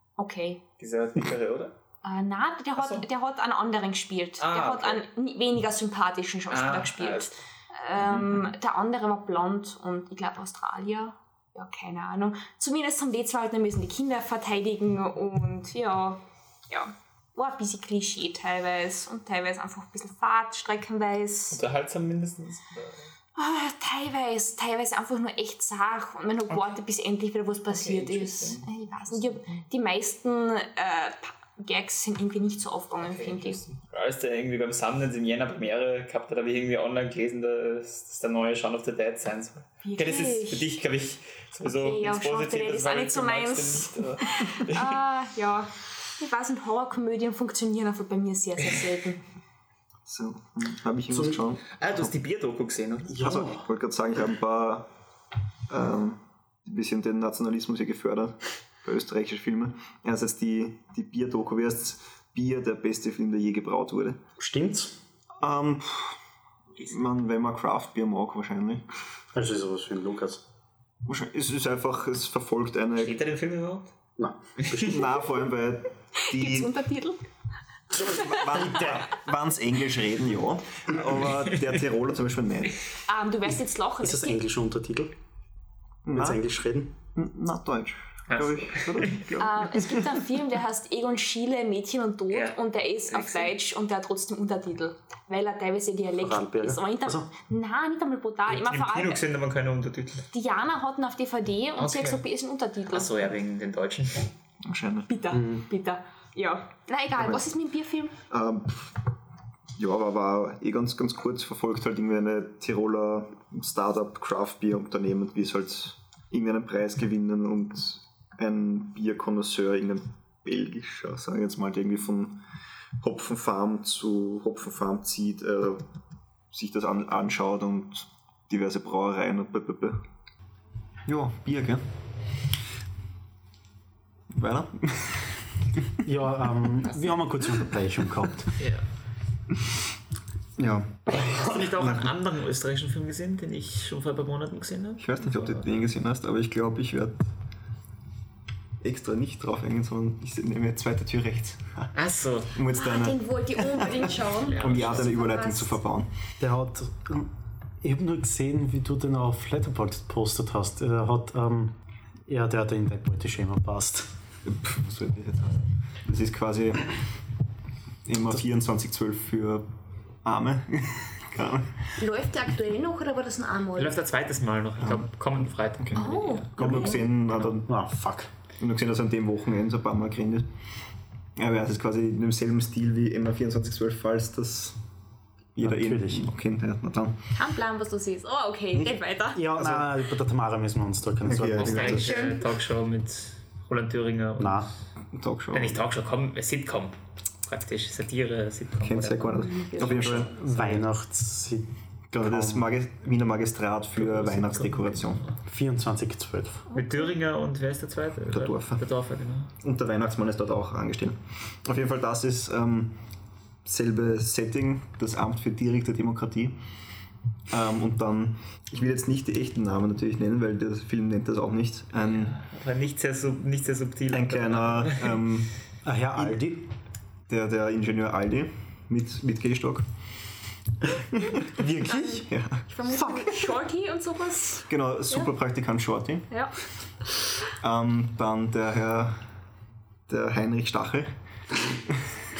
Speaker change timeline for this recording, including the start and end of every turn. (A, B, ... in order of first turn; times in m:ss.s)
0:00.2-0:00.6 A
0:00.8-0:01.8 B
0:02.0-0:21.6 A
0:02.8-0:03.0 B
0:04.4-0:05.0 B
0:06.5-0:07.3 B
0:08.0-0:08.4 B
0:21.5-0:23.1 B
0:23.4-0:33.6 A
0:27.7-0:29.6 B
0:33.0-0:45.0 B
0:39.8-0:40.8 A
0:41.7-0:49.2 A
0:50.1-0:52.1 C
0:51.1-0:51.4 D
0:51.8-0:53.3 B
0:53.1-0:53.7 D
0:53.2-0:54.9 C
0:55.7-1:04.2 C
1:04.4-1:05.0 D
1:05.4-1:06.2 C
1:06.8-1:08.8 C
1:09.3-1:10.4 D
1:11.0-1:13.2 C
1:13.0-1:13.9 B
1:14.2-1:15.0 D
1:14.7-1:16.8 C
1:16.3-1:17.2 A
1:17.9-1:22.8 C
1:18.5-1:19.1 D
1:23.1-1:24.4 A
1:24.0-1:25.1 D
1:26.0-1:26.4 C
1:26.1-1:26.9 D
1:27.1-1:29.9 C
1:28.3-1:29.3 B
1:29.4-1:39.2 A
1:32.3-1:32.6 B
1:33.1-1:33.5 B
1:36.2-1:37.3 D
1:38.5-1:40.3 B
1:40.3-1:43.1 A
1:41.8-1:42.2 B
1:42.9-1:44.3 B
1:44.6-1:45.1 C
1:45.1-1:48.2 A
1:45.3-1:45.6 D
1:48.3-1:49.0 C
1:49.8-2:02.4 C
2:03.0-2:05.9 C
2:06.5-2:10.0 C
2:11.1-2:11.8 C
2:14.3-2:15.4 C
2:16.0-2:18.6 D
2:18.6-2:18.8 B
2:20.6-2:22.1 C
2:21.2-2:25.6 B
2:25.0-2:27.2 C
2:28.8-2:31.9 C
2:32.0-2:32.5 B
2:32.5-2:36.1 C
2:32.7-2:35.8 A
2:34.4-2:35.1 B
2:36.4-2:37.3 D
2:37.8-2:41.8 D
2:42.3-2:44.1 D
2:44.5-2:47.0 C
2:48.0-2:49.7 C
2:50.2-2:51.8 C
2:52.0-2:54.0 A
2:53.8-2:57.5 B
2:56.0-2:56.6 A
2:56.6-2:57.7 C
2:56.6-2:57.1 D
2:57.7-2:58.3 D
2:58.6-3:00.5 C
3:01.4-3:04.8 C
3:05.6-3:07.2 C
3:05.6-3:06.3 D
3:07.3-3:09.4 A
3:09.3-3:12.0 D
3:09.6-3:09.9 C
3:11.2-3:12.3 C
3:11.5-3:14.8 B
3:11.8-3:12.4 A
3:14.4-3:14.7 D
3:15.1-3:15.8 C
3:15.5-3:20.7 B
3:18.8-3:20.8 C
3:19.4-3:20.3 A
3:20.2-3:22.7 D
3:22.1-3:25.2 C
3:24.0-3:25.4 B
3:25.5-3:26.7 D
3:26.7-3:27.1 A
3:26.7-3:29.5 B
3:28.3-3:28.8 C
3:29.6-3:33.0 C
3:33.6-3:36.6 C
3:37.5-3:42.4 C
3:42.0-3:45.2 B
3:44.1-3:45.6 C
3:45.8-3:46.7 D
3:46.2-3:46.4 C
3:47.3-3:49.9 C
3:50.9-3:52.6 C
3:51.9-3:55.3 A
3:54.7-3:56.3 C
3:57.6-3:59.2 C
4:00.1-4:01.1 C